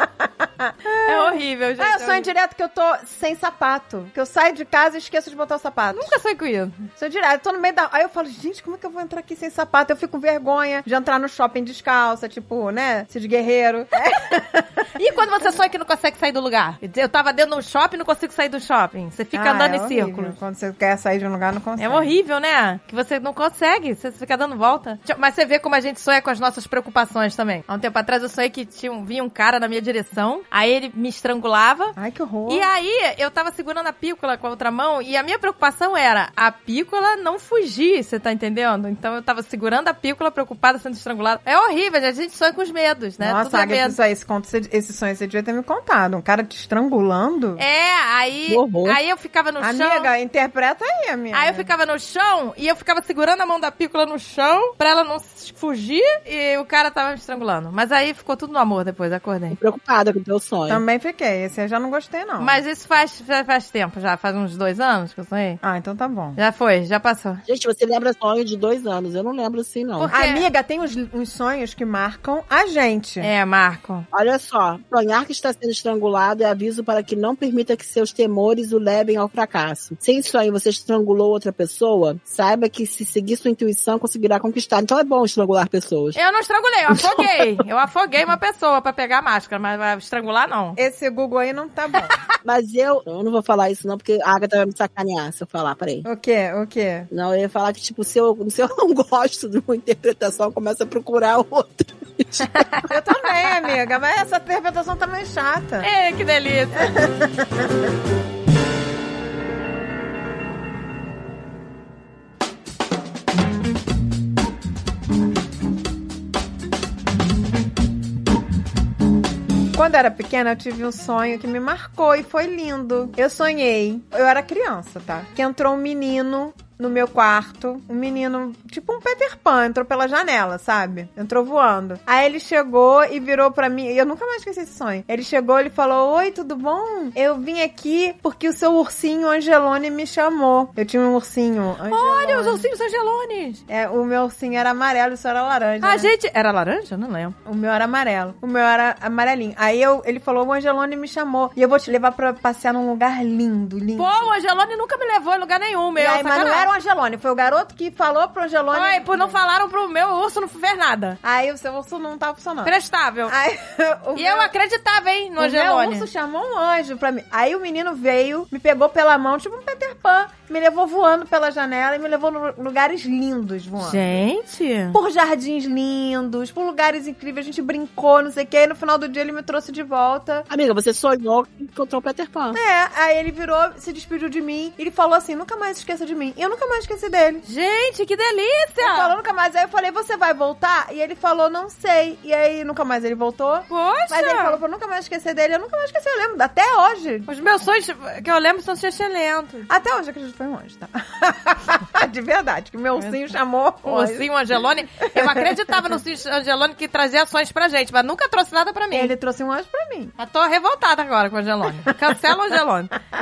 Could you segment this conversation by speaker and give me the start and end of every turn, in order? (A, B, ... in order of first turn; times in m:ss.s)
0:00.6-0:06.1 A
0:01.0-0:02.3 B
0:05.9-0:06.8 B
0:07.0-0:14.8 A
0:15.0-0:20.3 B
0:19.3-0:22.1 A
0:21.8-0:32.0 B
0:32.0-0:32.7 A
0:32.5-0:44.0 B
0:43.2-0:47.6 A
0:47.6-0:50.1 B
0:48.5-0:49.0 C
0:49.6-0:51.7 A
0:51.3-0:59.6 B
0:59.5-1:00.8 C
1:00.7-1:02.6 A
1:02.4-1:05.6 B
1:05.6-1:06.4 A
1:06.4-1:07.4 B
1:07.5-1:10.1 C
1:10.0-1:10.4 B
1:10.1-1:13.3 A
1:13.2-1:14.0 B
1:14.1-1:26.2 C
1:26.1-1:30.8 B
1:26.9-1:27.4 C
1:30.8-1:32.1 A
1:32.4-1:36.0 C
1:36.0-1:37.1 A
1:37.1-1:42.6 C
1:42.8-1:45.9 A
1:45.8-1:46.9 B
1:46.8-1:47.4 A
1:59.7-2:22.6 A
2:21.9-2:23.6 B
2:23.7-2:26.1 A
2:25.8-2:27.3 B
2:27.4-2:34.2 A
2:34.0-2:36.7 B
2:36.0-2:39.4 A
2:38.7-2:41.2 B
2:41.2-2:42.7 A
2:42.6-2:43.3 B
2:43.3-2:44.5 A
2:44.2-2:46.1 B
2:45.4-2:54.2 A
2:53.8-2:55.0 B
2:54.9-3:00.4 A
3:00.5-3:02.6 C
3:02.5-3:07.4 A
3:07.4-3:09.1 B
3:08.8-3:17.3 A
3:13.7-3:14.6 B
3:17.3-3:19.7 B
3:19.7-3:24.3 A
3:23.8-3:29.1 B
3:25.0-3:25.5 A
3:28.9-3:30.1 A
3:30.2-3:32.9 B